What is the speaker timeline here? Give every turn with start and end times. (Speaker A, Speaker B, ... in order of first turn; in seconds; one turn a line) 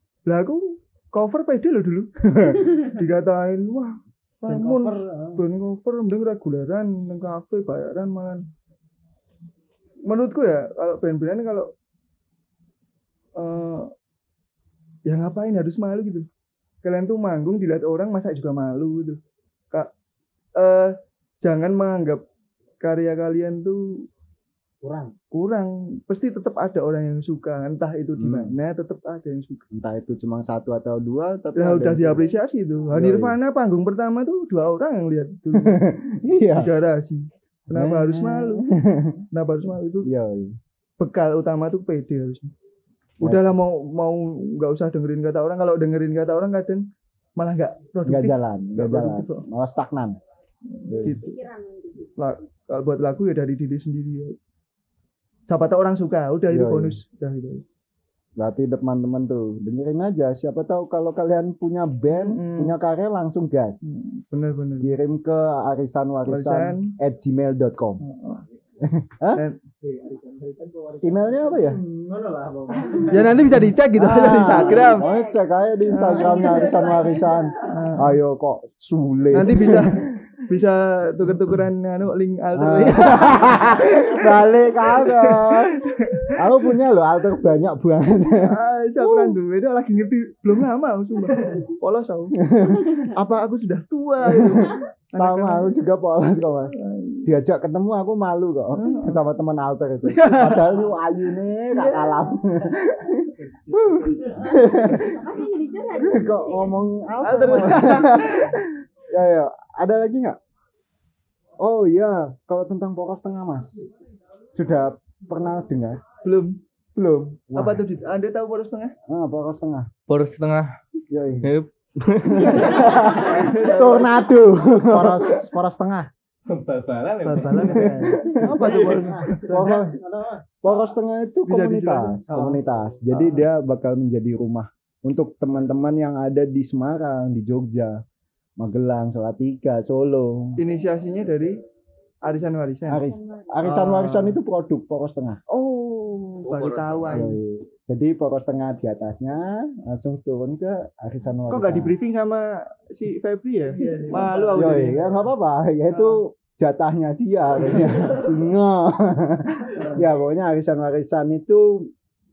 Speaker A: 0.3-8.4
Speaker B: 2.4-2.6
Speaker C: 4.5-5.4
Speaker A: 10.1-11.7
Speaker A: 13.4-13.9
Speaker A: 15.1-16.3
Speaker A: 16.8-19.2
Speaker A: 20.6-22.2
Speaker A: 22.8-24.1
Speaker C: 24.8-25.1
Speaker A: 25.3-29.6
Speaker B: 28.2-28.6
Speaker B: 29.7-32.3
Speaker A: 31.6-35.9
Speaker B: 32.9-33.4
Speaker B: 35.5-36.7
Speaker A: 36.5-38.7
Speaker B: 37.7-39.2
Speaker A: 39.3-40.1
Speaker B: 40.0-40.6
Speaker A: 41.0-42.5
Speaker A: 43.2-46.9
Speaker A: 47.4-49.5
Speaker B: 48.0-50.2
Speaker A: 50.8-51.4
Speaker B: 50.9-51.2
Speaker D: 51.0-52.1
Speaker A: 52.2-54.4
Speaker A: 55.5-57.6
Speaker B: 56.5-57.0
Speaker B: 58.4-63.9
Speaker A: 62.1-62.8
Speaker A: 63.8-65.0
Speaker B: 64.8-68.0
Speaker A: 66.3-66.9
Speaker A: 68.0-68.5
Speaker B: 68.8-69.4
Speaker A: 69.3-69.6
Speaker C: 69.8-73.4
Speaker B: 71.0-71.8
Speaker A: 73.1-75.1
Speaker B: 73.9-80.2
Speaker D: 74.5-77.9
Speaker A: 75.9-76.7
Speaker A: 77.6-78.2
Speaker A: 79.3-86.7
Speaker B: 82.5-89.4
Speaker A: 88.4-92.4
Speaker B: 92.4-93.1
Speaker A: 93.0-95.7
Speaker B: 94.2-105.3
Speaker A: 96.8-97.3
Speaker A: 98.7-99.2
Speaker A: 100.1-100.8
Speaker A: 101.7-102.3
Speaker A: 103.6-104.6
Speaker D: 104.3-108.4
Speaker B: 105.9-110.4
Speaker A: 107.2-108.5
Speaker B: 111.6-113.8
Speaker B: 114.5-116.0
Speaker A: 116.2-116.6
Speaker B: 117.0-117.8
Speaker A: 117.5-119.0
Speaker B: 119.1-119.9
Speaker E: 120.1-120.7
Speaker B: 121.1-121.5
Speaker E: 121.4-123.1
Speaker A: 122.4-124.3
Speaker B: 122.4-125.4
Speaker C: 124.8-126.1
Speaker E: 126.5-127.9
Speaker A: 127.2-129.8
Speaker C: 127.3-130.8
Speaker B: 127.7-128.8
Speaker E: 128.6-129.2
Speaker B: 129.4-130.0
Speaker B: 130.6-138.0
Speaker A: 131.5-132.6
Speaker B: 138.6-140.6
Speaker A: 140.6-141.6
Speaker A: 142.2-143.0
Speaker B: 142.9-145.4
Speaker D: 143.1-143.5
Speaker A: 143.6-144.4
Speaker A: 145.5-147.4
Speaker E: 146.5-147.3
Speaker B: 147.1-151.9
Speaker A: 151.5-155.2
Speaker C: 153.7-154.9
Speaker B: 154.5-161.9